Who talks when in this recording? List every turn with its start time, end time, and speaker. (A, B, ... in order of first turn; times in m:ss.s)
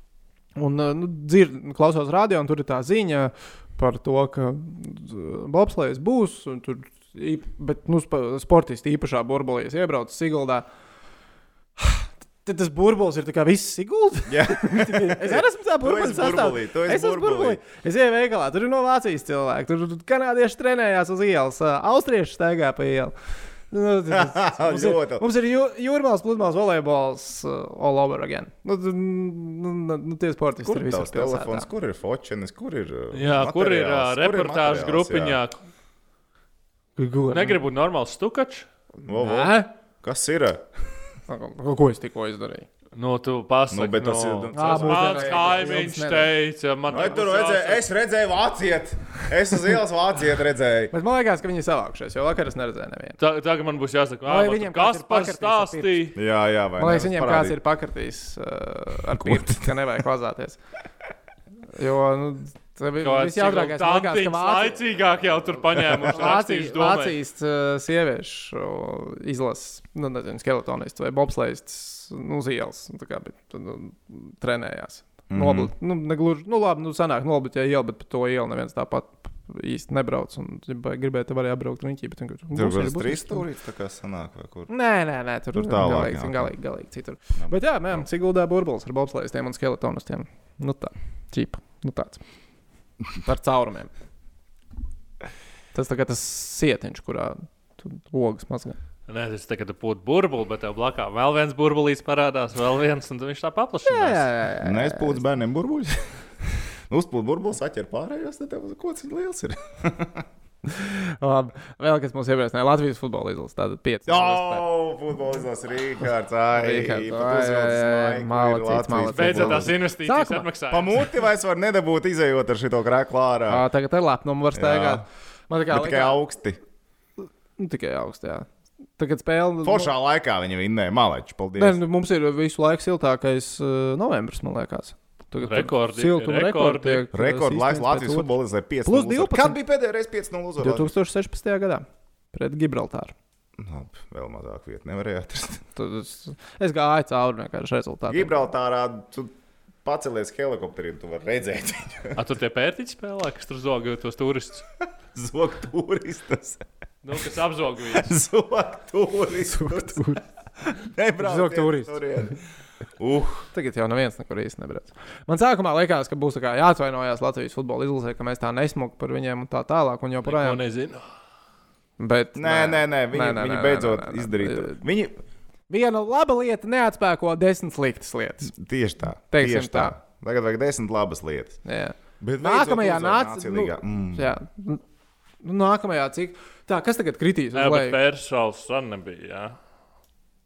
0:00.6-0:10.7 A
0:11.8-0:23.1 A
0:14.3-0:17.6 B
0:23.7-0:31.7 A
0:24.1-0:25.3 B
0:30.6-0:35.4 B
0:33.1-0:35.6 C
0:37.0-0:37.6 A
0:37.3-0:38.7 C
0:39.1-0:40.7 B
0:39.1-0:39.7 A
0:41.3-0:42.7 A
0:43.0-0:47.8 C
0:43.7-0:45.7 B
0:44.5-0:46.3 A
0:46.9-0:50.9 B
0:50.9-0:53.2 A
0:53.2-0:56.2 C
0:54.3-0:56.1 A
0:56.2-0:57.6 B
0:56.8-1:00.6 A
0:59.1-0:59.8 B
1:01.7-1:05.0 A
1:03.0-1:07.2 C
1:06.0-1:23.5 A
1:15.3-1:15.7 B
1:22.5-1:24.7 B
1:24.7-1:32.2 A
1:25.5-1:26.5 B
1:27.4-1:28.0 B
1:33.2-1:33.9 A
1:35.7-1:38.8 A
1:39.1-1:44.3 C
1:43.8-1:45.2 A
1:44.6-1:46.0 B
1:46.9-1:50.3 B
1:50.7-1:54.7 A
1:54.1-1:59.8 B
1:56.6-2:00.5 A
1:59.1-2:01.1 C
2:00.7-2:03.7 B
2:03.5-2:06.2 A
2:04.5-2:05.0 B
2:05.7-2:06.6 B
2:07.6-2:09.9 A
2:09.6-2:11.8 B
2:11.6-2:18.3 A
2:15.4-2:17.1 C
2:17.1-2:20.9 B
2:18.8-2:19.6 A
2:20.6-2:23.1 A
2:23.6-2:25.6 B
2:25.8-2:28.4 A
2:28.1-2:29.3 B
2:29.8-2:32.2 B
2:32.2-2:34.6 C
2:35.1-2:36.6 B
2:37.0-2:38.2 C
2:37.9-2:42.4 B
2:39.5-2:40.2 A
2:41.2-2:42.0 A
2:43.0-2:43.5 B
2:43.5-2:50.6 A
2:50.2-2:51.0 C
2:52.0-2:54.8 A
2:52.4-2:55.2 B
2:55.7-2:58.5 A
2:58.5-3:01.6 B
2:59.3-3:00.0 A
3:01.6-3:04.8 A
3:02.2-3:04.4 B
3:05.4-3:08.0 A
3:07.5-3:09.6 C